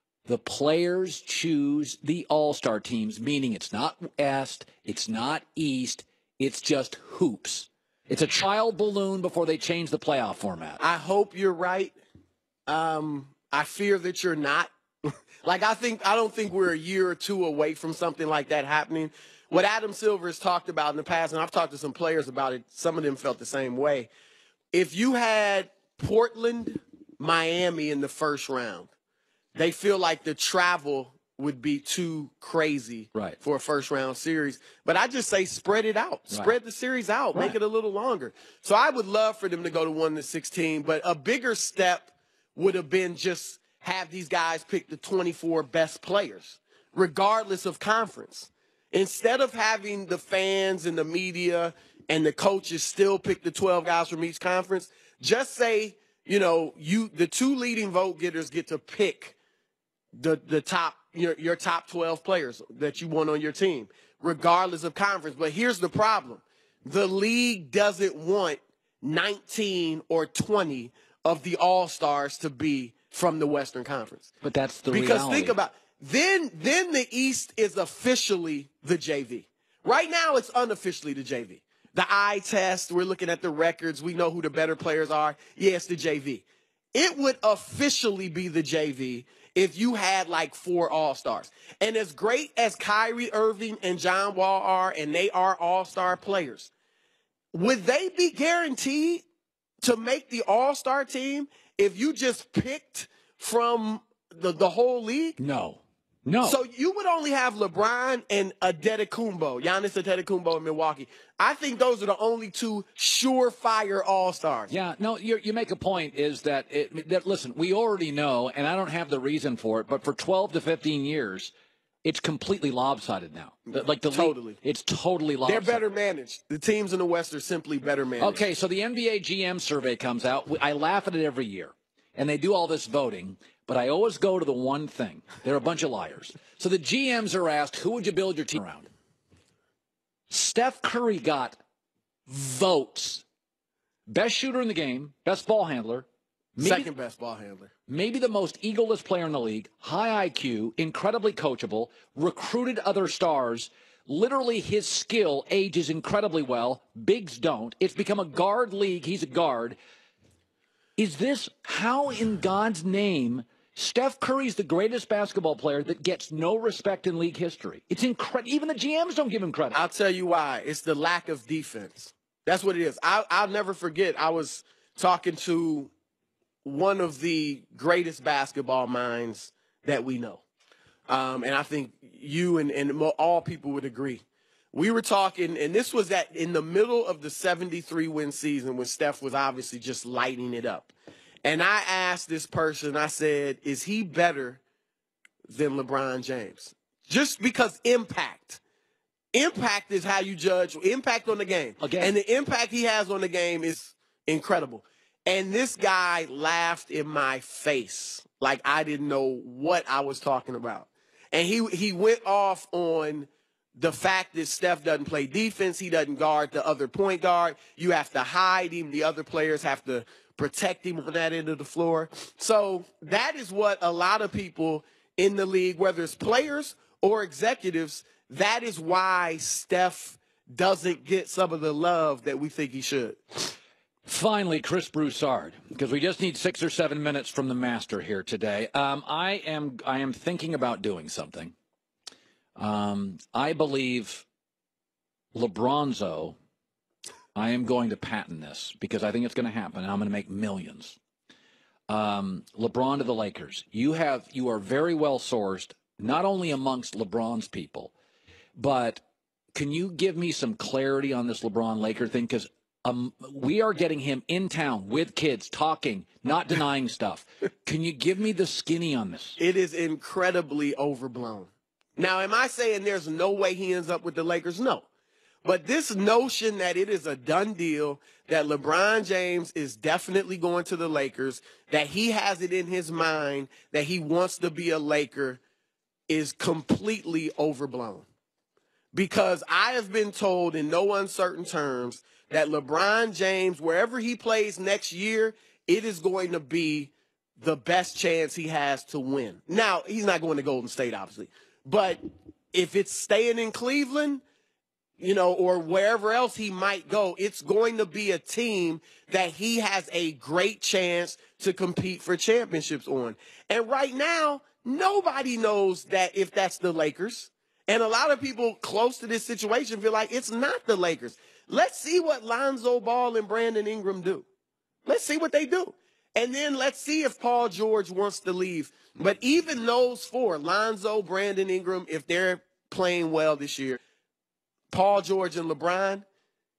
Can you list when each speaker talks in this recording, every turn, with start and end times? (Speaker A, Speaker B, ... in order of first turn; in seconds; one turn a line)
Speaker A: 0.2-10.8
Speaker B: 10.8-11.9
Speaker B: 12.7-24.1
Speaker B: 24.7-28.9
Speaker B: 29.5-59.4
Speaker A: 36.3-36.5
Speaker B: 60.1-74.3
Speaker A: 74.4-75.6
Speaker B: 74.9-96.7
Speaker B: 97.5-99.2
Speaker B: 99.8-105.4
Speaker A: 105.4-106.6
Speaker B: 106.4-114.7
Speaker A: 114.7-125.8
Speaker B: 123.7-124.6
Speaker B: 125.4-128.5
Speaker A: 128.2-138.9
Speaker A: 140.3-141.6
Speaker A: 142.3-143.2
Speaker A: 144.1-146.9
Speaker B: 146.6-147.7
Speaker A: 147.9-159.8
Speaker A: 161.0-169.8
Speaker B: 169.7-175.9
Speaker B: 176.6-180.4
Speaker B: 181.1-190.9
Speaker B: 191.4-194.6
Speaker B: 195.4-198.6
Speaker B: 199.3-233.5
Speaker A: 201.8-202.1
Speaker A: 234.1-241.5
Speaker A: 242.6-244.2
Speaker A: 245.3-246.3
Speaker A: 247.3-251.0
Speaker A: 251.9-257.9
Speaker A: 258.6-259.0
Speaker A: 259.5-269.4
Speaker B: 269.4-274.9
Speaker B: 275.4-285.4
Speaker B: 286.1-288.1
Speaker B: 288.9-302.0
Speaker B: 302.5-304.2
Speaker B: 305.0-324.2
Speaker B: 324.9-333.8
Speaker B: 334.7-336.0